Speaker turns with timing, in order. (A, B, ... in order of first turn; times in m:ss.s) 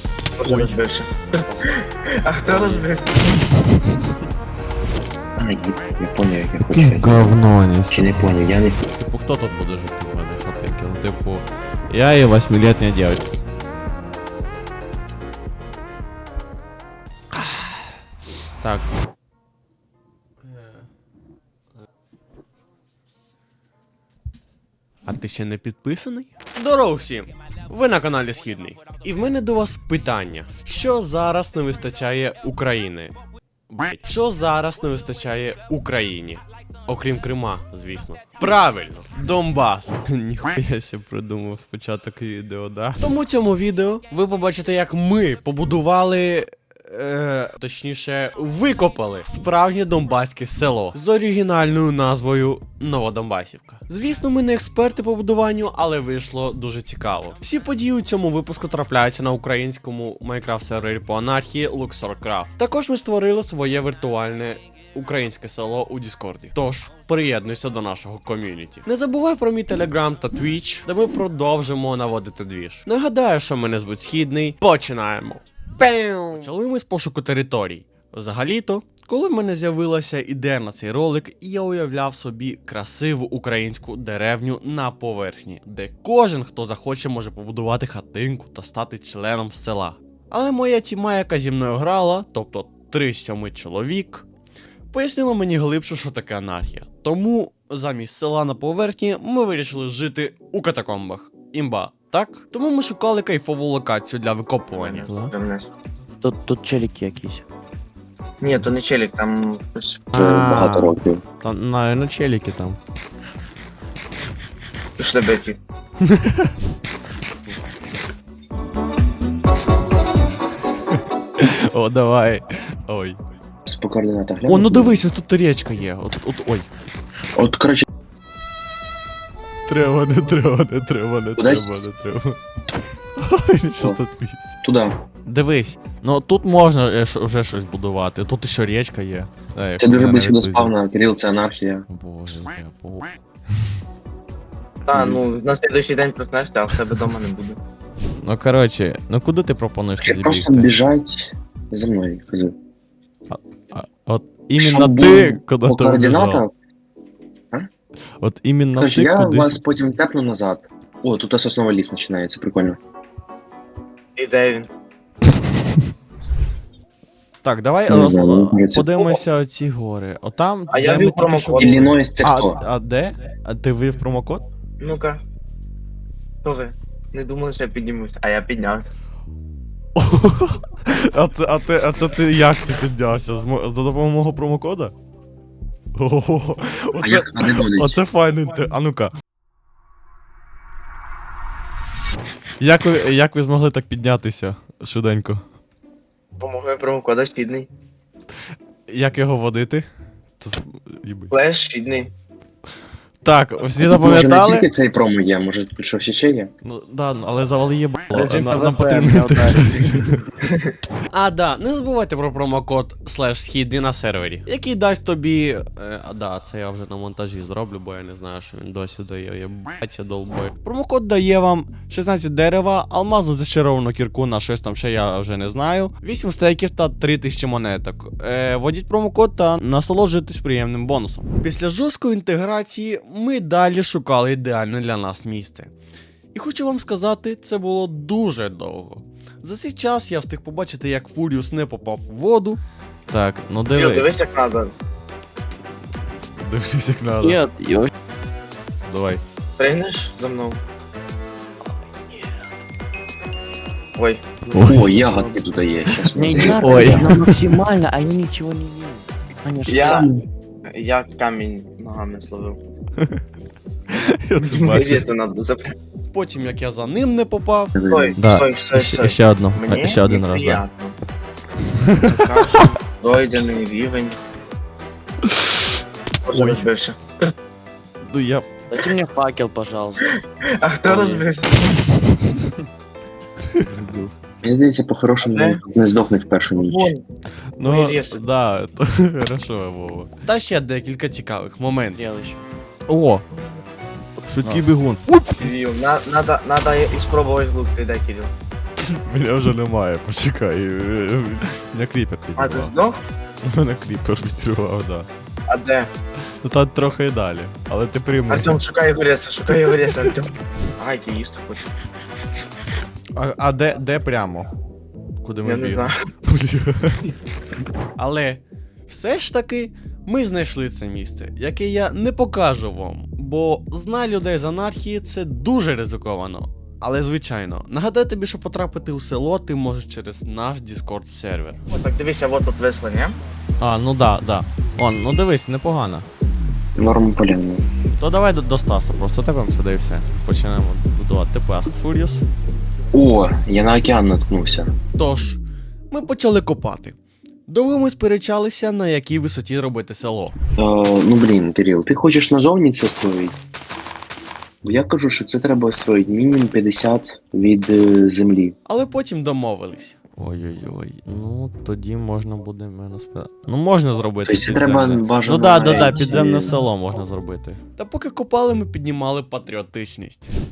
0:00.4-0:03.4 A
0:00.4-0:00.7 B
0:02.5-0:02.9 C
0:05.4-0:07.3 D
0:06.7-0:08.1 B
0:07.9-0:08.8 D
0:08.8-0:13.3 B
0:17.3-0:17.9 B
0:18.6-0:18.9 B
0:25.0-0:33.1 B
0:33.7-1:34.2 B
1:34.9-1:45.3 B
1:44.7-1:45.7 A
1:46.2-1:47.4 C
1:48.4-1:50.0 A
1:50.1-1:52.8 B
1:50.1-1:51.2 D
1:55.0-1:55.6 A
1:56.0-1:56.5 B
2:00.9-2:03.2 B
2:03.7-2:05.0 D
2:04.5-2:06.7 B
2:07.4-2:07.8 D
2:09.7-2:12.4 B
2:11.4-2:11.8 D
2:13.2-2:14.6 B
2:14.6-2:15.0 D
2:15.2-2:20.7 B
2:19.8-2:21.9 D
2:21.9-2:23.1 B
2:24.9-2:27.6 A
2:24.9-2:25.2 D
2:28.2-2:30.7 B
2:30.0-2:32.6 D
2:33.3-2:36.4 B
2:34.6-2:36.5 D
2:38.2-2:39.6 B
2:38.8-2:42.8 D
2:44.2-2:44.7 A
2:47.4-2:54.4 B
2:47.9-2:49.2 D
2:50.7-2:51.9 A
2:51.6-2:52.6 D
2:54.8-2:55.2 A
2:56.4-2:58.9 A
3:00.0-3:04.9 B
3:06.0-3:09.1 B
3:07.0-3:08.0 D
3:12.6-3:15.4 B
3:16.4-3:17.7 A
3:18.9-3:19.9 B
3:20.4-3:21.3 B
3:21.3-3:22.1 A
3:23.2-3:24.7 B
3:23.8-3:26.5 D
3:26.6-3:30.3 B
3:28.1-3:30.2 C
3:30.4-3:30.8 A
3:31.1-3:55.7 B
3:56.3-4:04.2 B
4:03.8-4:04.7 A
4:06.4-4:07.4 B
4:07.2-4:07.9 C
4:08.9-4:09.2 B
4:09.6-4:10.6 A
4:12.1-4:12.4 C
4:14.0-4:14.2 A
4:14.4-4:15.4 C
4:14.5-4:14.9 B
4:14.6-4:17.2 D
4:16.1-4:20.0 C
4:16.3-4:17.6 B
4:19.7-4:20.1 A
4:19.8-4:20.2 D
4:20.7-4:22.6 A
4:23.9-4:25.0 B
4:24.4-4:25.7 A
4:26.1-4:30.6 B
4:27.8-4:28.2 D
4:27.9-4:31.0 A
4:31.8-4:32.7 B
4:32.0-4:34.2 A
4:36.2-4:37.0 A
4:36.3-4:36.6 B
4:38.0-4:38.5 B
4:38.7-4:40.2 C
4:40.6-4:41.7 A
4:40.8-4:41.3 C
4:43.7-4:44.1 C
4:44.4-4:46.9 D
4:45.2-4:45.6 A
4:46.6-4:47.0 A
4:47.6-4:52.0 B
4:47.6-4:48.2 A
4:52.0-4:52.4 C
4:52.9-4:53.2 B
4:54.2-4:55.5 B
4:54.4-4:54.7 C
4:55.4-4:58.3 A
4:58.9-5:02.8 B
5:02.4-5:03.0 A
5:03.4-5:05.1 B
5:05.5-5:05.9 A
5:06.4-5:08.6 B
5:08.3-5:11.6 A
5:13.2-5:14.5 B
5:15.2-5:17.2 B
5:15.4-5:15.9 A
5:18.0-5:31.6 B
5:31.7-5:33.2 A
5:33.6-5:36.1 B
5:36.8-5:37.6 D
5:38.0-5:42.2 B
5:42.9-5:44.8 D
5:45.0-5:45.4 B
5:45.9-5:50.4 B
5:50.6-5:53.4 D
5:54.6-5:58.6 D
5:58.7-6:10.3 B
6:04.2-6:06.6 D
6:05.6-6:05.9 A